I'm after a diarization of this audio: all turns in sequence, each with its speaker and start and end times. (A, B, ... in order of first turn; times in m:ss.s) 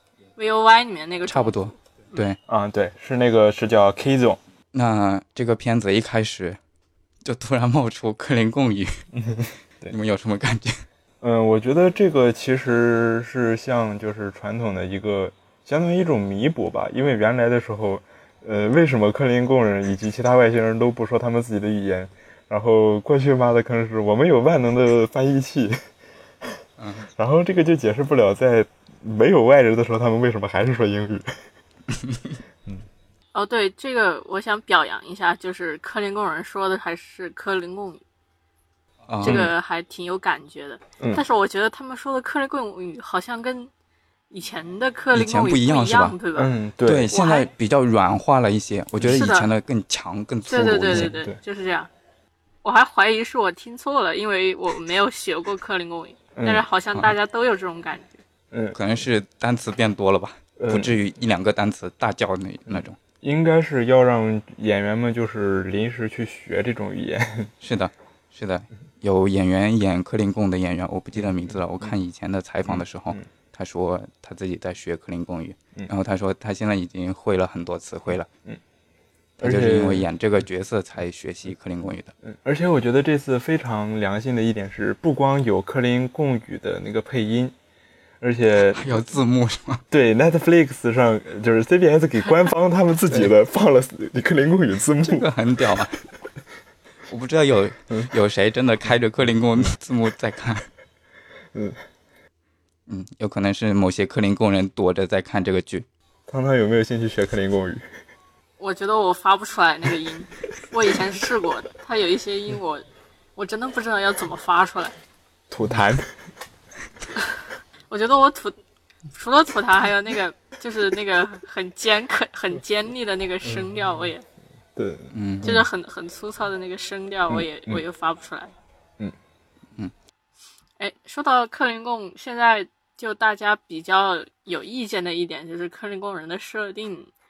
0:00.4-0:02.2 A
0:01.3-0:02.4 B
0:02.5-0:04.4 C
0:04.7-0:06.6 B
0:07.2-0:09.0 B
0:09.1-0:09.9 C
0:09.9-0:10.8 B
0:11.2-0:25.8 C
0:26.8-0:27.1 B
0:27.1-0:31.4 C
0:33.3-0:38.0 A
0:39.1-0:39.4 B
0:39.2-0:43.7 A
0:39.2-0:39.5 C
0:44.3-0:46.5 A
0:45.1-0:46.2 B
0:46.3-0:47.2 C
0:46.8-0:51.1 B
0:47.1-0:47.5 A
0:49.0-0:49.3 C
0:49.1-0:49.5 A
0:50.5-0:51.9 A
0:50.9-0:51.4 C
0:52.6-0:58.2 A
0:56.4-0:56.6 C
0:58.5-0:58.8 C
0:58.7-1:03.0 B
1:00.6-1:01.0 C
1:02.7-1:07.5 C
1:07.6-1:18.3 B
1:11.2-1:11.9 C
1:12.6-1:13.2 C
1:19.4-1:20.1 C
1:19.4-1:22.1 B
1:22.2-1:27.5 C
1:28.2-1:29.0 C
1:28.7-1:29.8 B
1:29.9-1:35.3 C
1:35.0-1:36.0 B
1:37.1-1:40.7 B
1:41.5-1:41.8 C
1:42.9-1:45.8 B
1:46.3-1:47.8 C
1:48.6-1:52.8 A
1:53.4-1:54.9 A
1:55.5-1:56.0 C
1:57.9-1:58.6 A
1:59.1-2:04.2 A
2:04.7-2:05.6 C
2:05.1-2:05.6 B
2:05.4-2:08.5 A
2:07.3-2:07.8 C
2:10.8-2:17.1 A